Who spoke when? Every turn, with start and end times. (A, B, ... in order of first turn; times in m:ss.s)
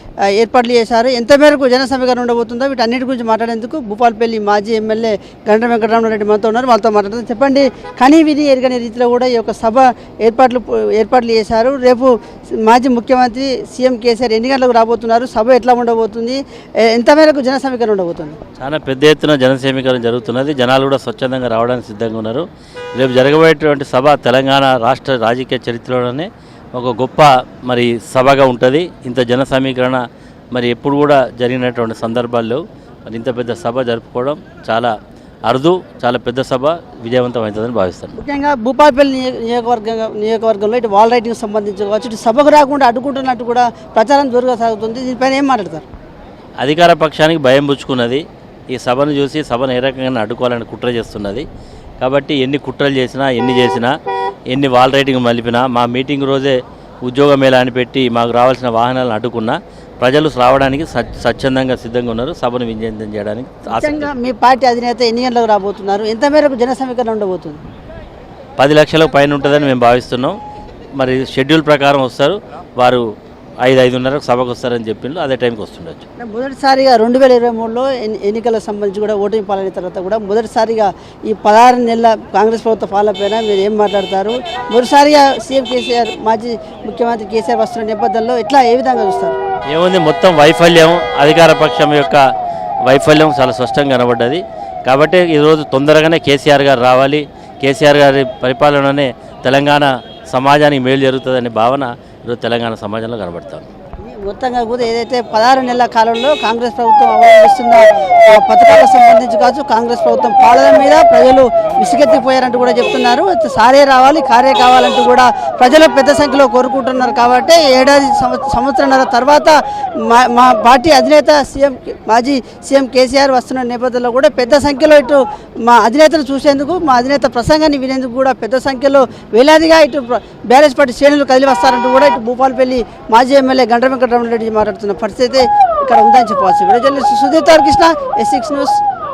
0:00.3-0:18.4 A
0:18.6-0:22.4 B
0:23.0-0:30.0 B
0:30.5-0:34.9 B
0:35.5-0:38.2 B
0:38.2-0:45.9 A
0:46.6-0:51.4 B
0:52.0-0:53.9 B
0:54.5-1:04.1 B
1:03.7-1:07.6 A
1:08.6-1:10.4 B
1:11.0-1:13.0 B
1:13.6-1:16.0 B
1:16.2-1:29.4 A
1:29.7-1:32.2 B
1:32.9-1:43.6 B
1:44.0-2:18.8 A